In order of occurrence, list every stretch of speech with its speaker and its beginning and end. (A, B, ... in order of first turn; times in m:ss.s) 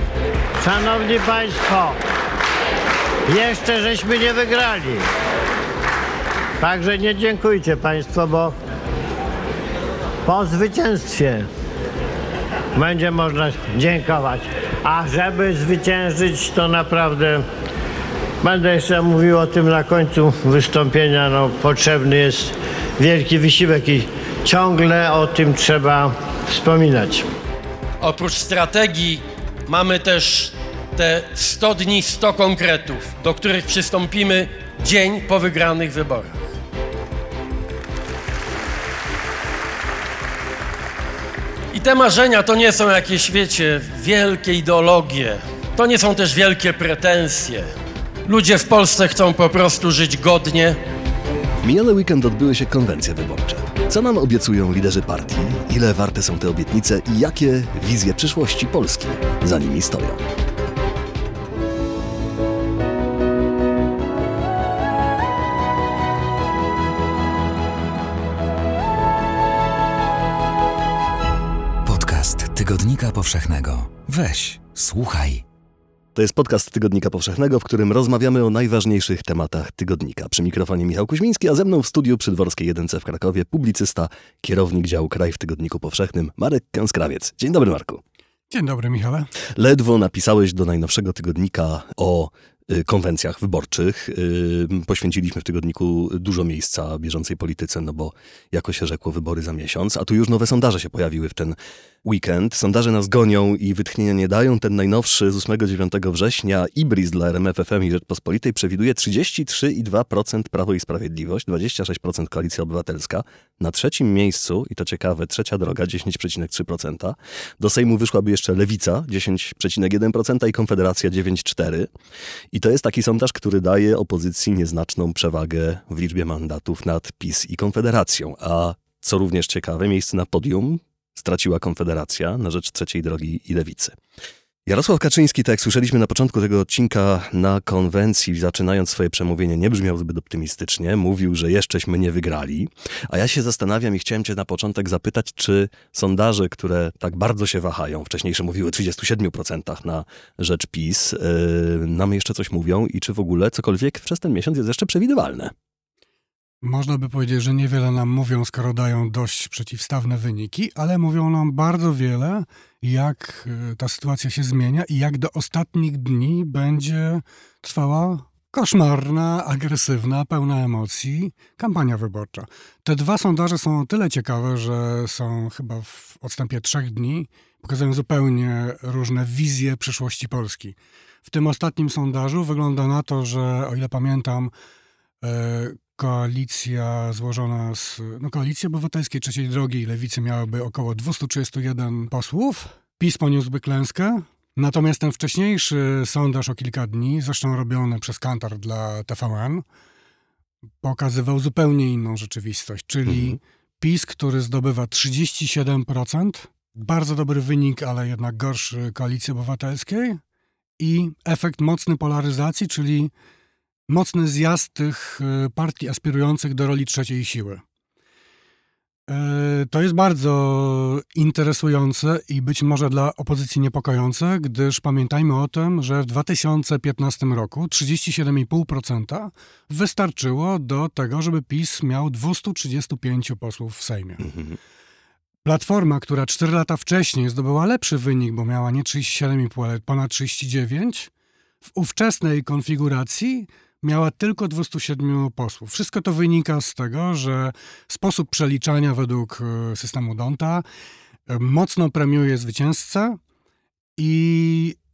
0:00.6-0:02.0 A
0:03.3-0:05.1 A
0:06.6-0:08.6 A
0:10.2-0:11.5 A
0:12.7-0:17.4 A
0:18.4-0:27.3 A
0:28.0-0:36.4 B
0:41.7-0:47.7 B
0:48.3-0:50.8 B
0:51.6-1:00.2 C
1:11.8-1:15.4 D
1:16.2-1:28.0 C
1:28.5-1:29.3 E
1:29.6-2:01.9 C
2:02.5-2:14.0 C
2:14.7-2:35.5 C
2:36.6-3:04.5 E
3:05.2-3:19.6 E
3:20.8-3:30.2 E
3:23.1-3:23.4 C
3:30.8-3:33.1 E
3:33.9-3:37.6 E
3:39.1-3:54.3 E
3:54.2-3:54.6 C
3:55.4-4:01.1 E
4:01.6-4:10.6 E
4:11.3-4:13.2 E
4:14.0-4:14.8 E